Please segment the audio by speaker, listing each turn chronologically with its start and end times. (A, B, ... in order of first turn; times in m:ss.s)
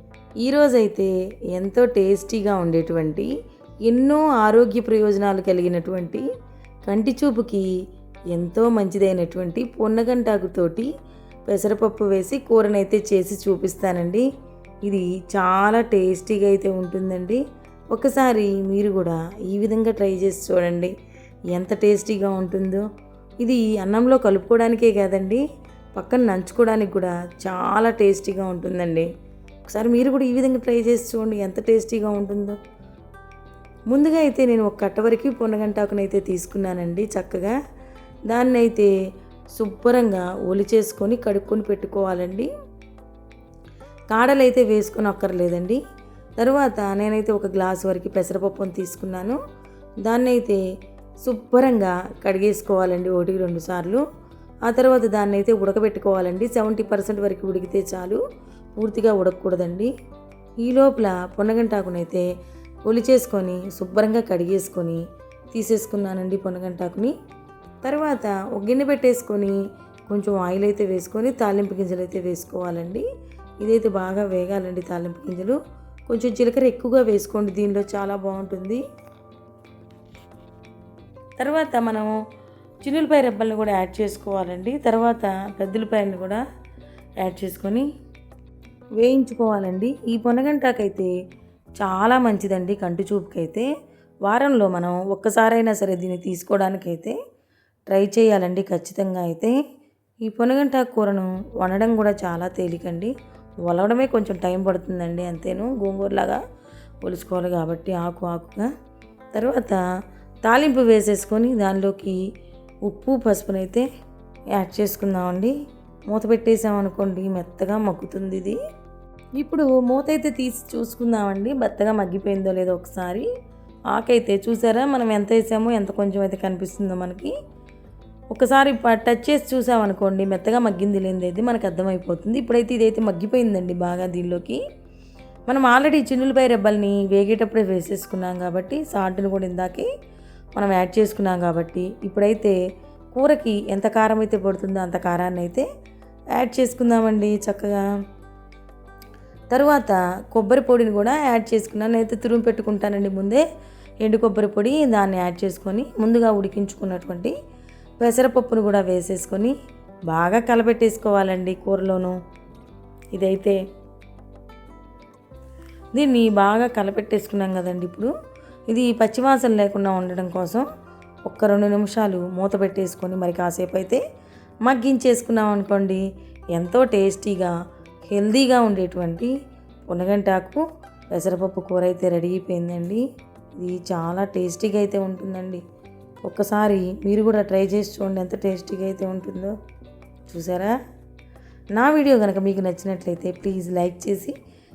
0:00.4-0:03.3 A
0:03.9-0:06.2 A
0:06.9-0:07.7 A
0:08.3-0:10.9 A
0:11.5-0:14.3 A
0:14.9-0:20.9 A
0:21.5-0:22.9 A
0:23.4-0:25.4 A
0:26.0-0:29.1 A
0:29.7-0:32.6 A
0:33.9-0:37.6 A
0:38.3-0:38.9 A
0:39.6-0:42.5 A
0:44.1-0:45.8 A
0:46.4-0:49.4 A
0:50.0-0:50.6 A
0:51.2-0:54.0 A
0:54.7-0:58.2 A
0:58.8-0:59.9 A
1:00.6-1:02.3 A
1:02.9-1:05.0 A
1:05.5-1:07.1 A
1:07.8-1:09.6 A
1:10.1-1:13.0 A
1:13.6-1:18.8 A
1:21.4-1:22.2 A
1:22.8-1:26.4 A
1:27.2-1:27.9 A
1:29.0-1:31.1 A
1:31.8-1:33.7 A
1:34.3-1:37.2 A
1:37.9-1:39.6 A
1:40.2-1:43.1 A
1:43.6-1:46.4 A
1:47.0-1:48.7 A
1:49.4-1:49.8 A
1:50.4-1:52.2 A
1:52.9-1:53.9 A
1:54.6-1:55.5 A
1:56.1-1:58.6 A
1:59.4-2:03.3 A
2:03.9-2:07.3 A
2:08.3-2:14.6 A
2:15.5-2:19.9 A
2:20.6-2:22.6 A
2:23.1-2:25.7 A
2:26.4-2:27.8 A
2:29.5-2:33.4 A
2:34.0-2:37.3 A
2:38.0-2:39.6 A
2:40.1-2:42.2 A
2:43.1-2:43.6 A
2:46.0-2:48.1 A
2:48.7-2:50.6 A
2:51.3-2:54.0 A
2:54.6-2:56.0 A
2:56.5-2:57.5 A
2:58.1-2:59.3 A
2:59.9-3:00.6 A
3:01.2-3:03.0 A
3:03.6-3:05.6 A
3:06.2-3:09.6 A
3:10.3-3:10.8 A
3:11.8-3:14.4 A